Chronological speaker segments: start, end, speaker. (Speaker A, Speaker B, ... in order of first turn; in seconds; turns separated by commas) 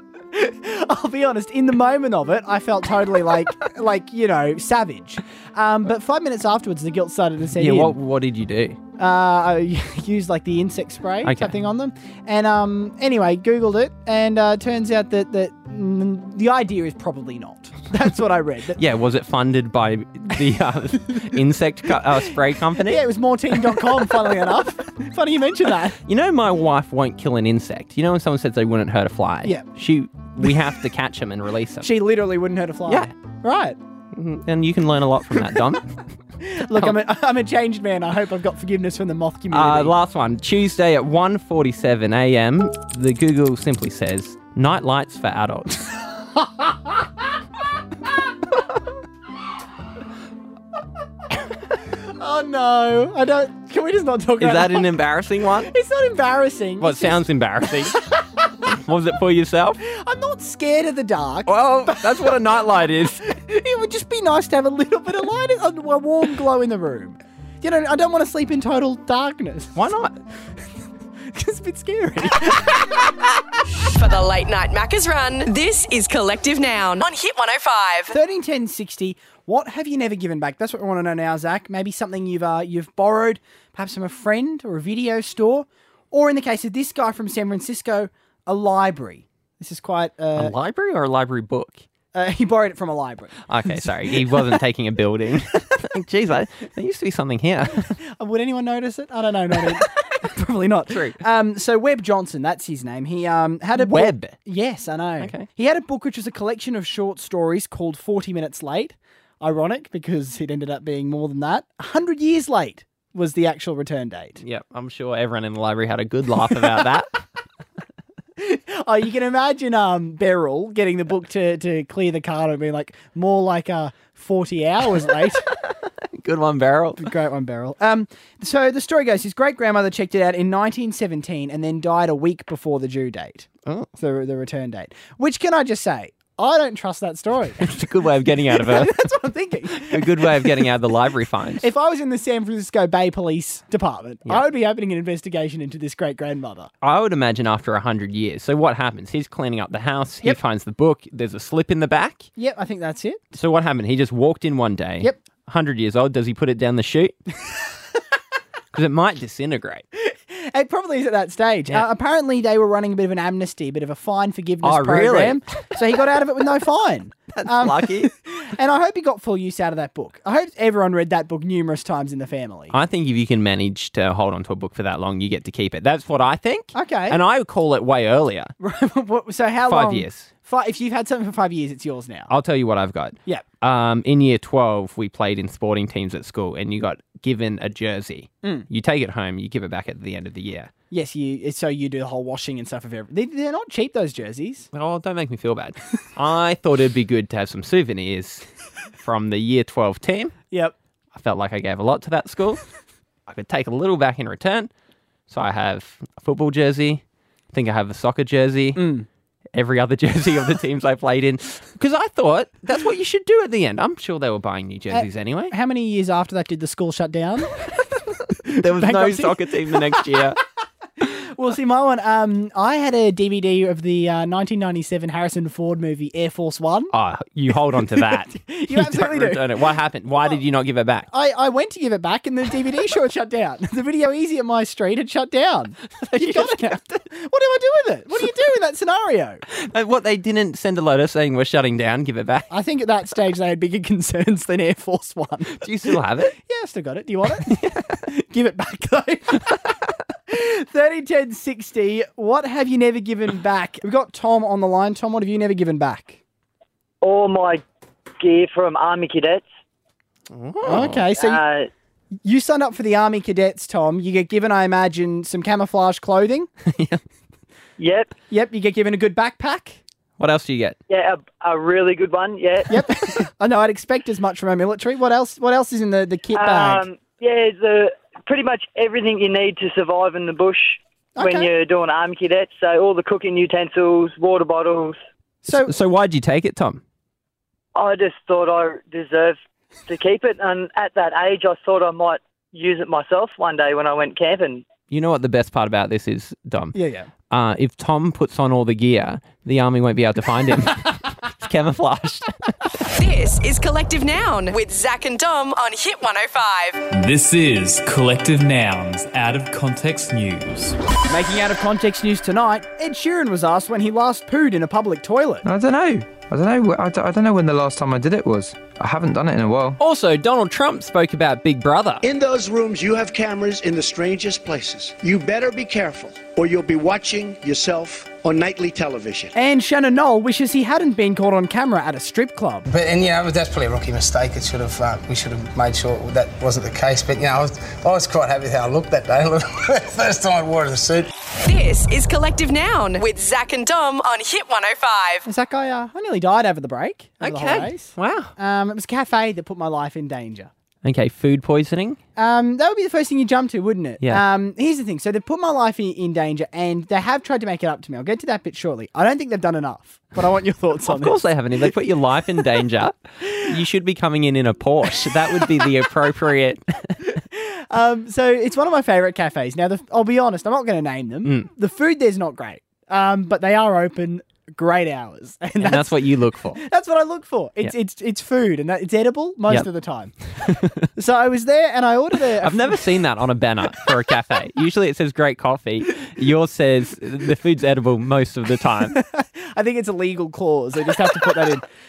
Speaker A: 0.3-8.0, Speaker B: 7.6-8.8, Speaker A: 9.0-18.8, Speaker B: 11.2-11.6, Speaker B: 18.8-24.4, Speaker A: 22.8-26.0, Speaker B: 26.1-31.9, Speaker A: 31.8-33.8, Speaker B: 34.1-35.9, Speaker A: 36.4-39.9, Speaker B: 39.5-46.0, Speaker A: 46.4-46.8, Speaker A: 51.9-54.9, Speaker B: 54.4-55.7, Speaker A: 55.6-57.2, Speaker B: 56.8-58.0, Speaker B: 58.6-59.8, Speaker A: 59.9-62.4, Speaker B: 61.5-63.2, Speaker A: 63.2-69.9, Speaker B: 69.7-70.1, Speaker A: 71.3-73.2, Speaker C: 73.9-78.1, Speaker A: 78.1-90.5, Speaker B: 90.3-91.8, Speaker A: 92.1-94.4, Speaker B: 93.5-97.9, Speaker A: 98.2-114.4, Speaker B: 100.9-101.2, Speaker B: 103.7-104.3, Speaker B: 105.2-105.5, Speaker B: 114.4-117.2, Speaker A: 118.4-125.5, Speaker B: 125.6-127.1, Speaker A: 127.0-137.7, Speaker B: 137.6-139.0, Speaker A: 138.4-140.7, Speaker B: 139.7-141.7, Speaker A: 141.6-146.7, Speaker B: 146.8-152.3, Speaker A: 152.4-153.2, Speaker B: 153.3-157.1, Speaker B: 158.7-159.8, Speaker A: 160.0-172.7, Speaker B: 164.6-165.4, Speaker B: 167.3-168.1, Speaker B: 172.7-178.5, Speaker A: 176.7-177.2, Speaker A: 178.6-182.3, Speaker B: 179.7-180.3, Speaker B: 182.3-190.7, Speaker A: 190.9-194.7, Speaker B: 194.7-198.4, Speaker B: 199.0-200.3, Speaker B: 201.1-202.6, Speaker B: 203.3-204.7, Speaker B: 205.3-207.0, Speaker B: 207.5-208.9, Speaker A: 208.8-209.1, Speaker B: 209.5-215.5, Speaker A: 214.9-217.6, Speaker A: 218.4-220.2, Speaker B: 218.5-220.4, Speaker A: 221.0-226.9, Speaker B: 226.9-231.1, Speaker A: 227.7-229.6, Speaker A: 231.1-239.4, Speaker B: 236.0-236.8, Speaker B: 239.5-242.5, Speaker A: 242.5-249.6, Speaker B: 245.5-246.3, Speaker B: 247.4-247.9, Speaker A: 250.3-256.2, Speaker D: 257.0-257.6, Speaker D: 258.2-259.4, Speaker B: 260.3-261.0, Speaker A: 260.6-261.4, Speaker D: 261.2-261.7, Speaker A: 262.2-266.5, Speaker B: 266.6-267.0, Speaker D: 267.8-268.1, Speaker A: 268.3-269.8, Speaker B: 270.2-270.8, Speaker D: 270.9-272.8, Speaker A: 272.7-276.8, Speaker D: 276.3-285.0, Speaker A: 281.1-281.5, Speaker A: 285.4-285.7, Speaker B: 285.5-286.8, Speaker D: 287.7-294.6, Speaker B: 294.9-296.8, Speaker A: 296.7-297.1, Speaker B: 297.3-302.8, Speaker C: 303.0-306.8, Speaker E: 306.9-310.8, Speaker A: 311.1-315.5, Speaker F: 315.4-319.8, Speaker B: 319.8-322.0, Speaker G: 322.0-329.3, Speaker A: 329.3-332.7, Speaker H: 332.6-341.1, Speaker C: 341.4-345.2, Speaker A: 345.2-350.5, Speaker B: 347.2-348.3, Speaker B: 350.8-352.0, Speaker A: 352.1-361.1, Speaker B: 360.8-367.0, Speaker A: 367.1-380.1, Speaker B: 375.6-376.6, Speaker B: 380.4-380.9, Speaker A: 380.9-382.8, Speaker B: 382.4-388.9, Speaker A: 388.9-391.6